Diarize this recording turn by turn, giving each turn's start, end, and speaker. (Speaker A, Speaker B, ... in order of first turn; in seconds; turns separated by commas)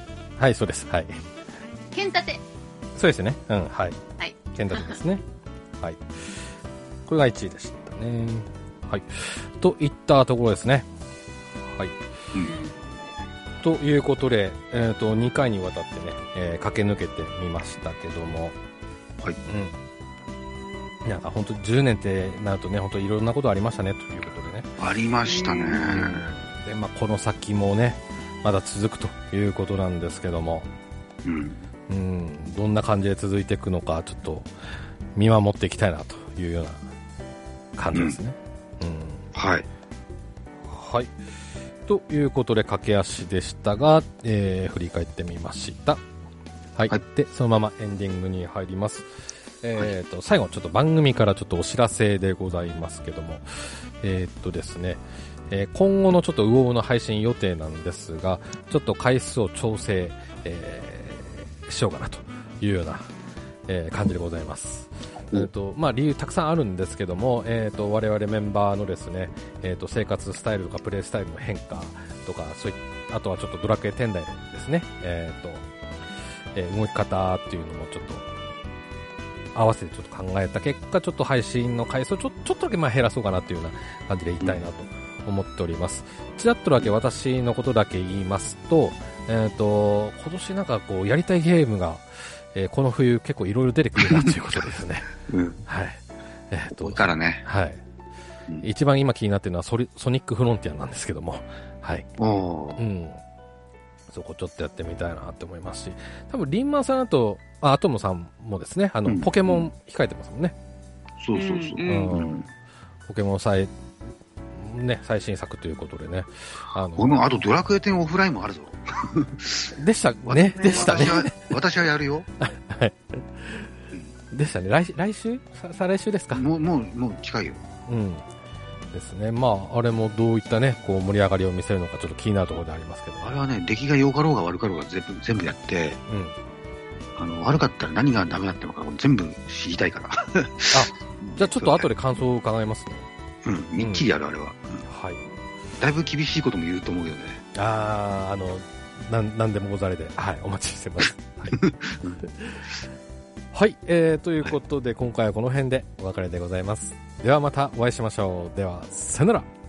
Speaker A: 0.4-1.2, Speaker B: 1.9-2.4, Speaker A: 3.0-4.0, Speaker B: 4.2-5.0, Speaker A: 4.5-5.2, Speaker A: 5.8-6.4, Speaker A: 7.1-10.9, Speaker B: 12.4-12.7, Speaker A: 13.6-18.6, Speaker A: 19.5-19.8, Speaker A: 21.1-24.7, Speaker C: 24.8-26.3, Speaker B: 25.3-25.8, Speaker A: 25.8-30.7, Speaker C: 31.2-31.6, Speaker A: 31.9-34.5, Speaker A: 35.2-36.9, Speaker A: 37.8-39.3, Speaker C: 37.9-38.2, Speaker C: 39.3-39.7, Speaker A: 40.7-41.1, Speaker A: 41.9-46.0, Speaker A: 46.8-63.1, Speaker A: 63.7-75.7, Speaker A: 76.5-78.3, Speaker A: 79.5-95.1, Speaker C: 95.3-95.6, Speaker A: 95.7-97.8, Speaker C: 96.7-97.5, Speaker A: 98.6-102.1, Speaker C: 102.2-102.8, Speaker A: 102.8-103.2, Speaker A: 104.1-110.5, Speaker C: 109.1-109.7, Speaker C: 111.2-112.5, Speaker B: 111.3-112.1, Speaker A: 111.8-112.5, Speaker A: 113.1-113.7, Speaker A: 114.5-117.2, Speaker C: 116.9-119.8, Speaker A: 119.8-121.5, Speaker C: 120.3-122.3, Speaker B: 120.6-121.2, Speaker A: 122.4-123.7, Speaker A: 124.3-126.5, Speaker C: 126.3-127.6, Speaker A: 127.9-128.3, Speaker A: 128.9-133.4, Speaker C: 133.2-136.0, Speaker A: 136.1-136.3, Speaker C: 137.2-141.9, Speaker A: 140.7-143.1, Speaker C: 143.4-144.8, Speaker A: 143.8-144.1, Speaker A: 144.9-145.2, Speaker C: 145.8-147.4, Speaker A: 147.5-151.6, Speaker C: 151.5-152.2, Speaker A: 152.3-152.6, Speaker A: 153.5-159.5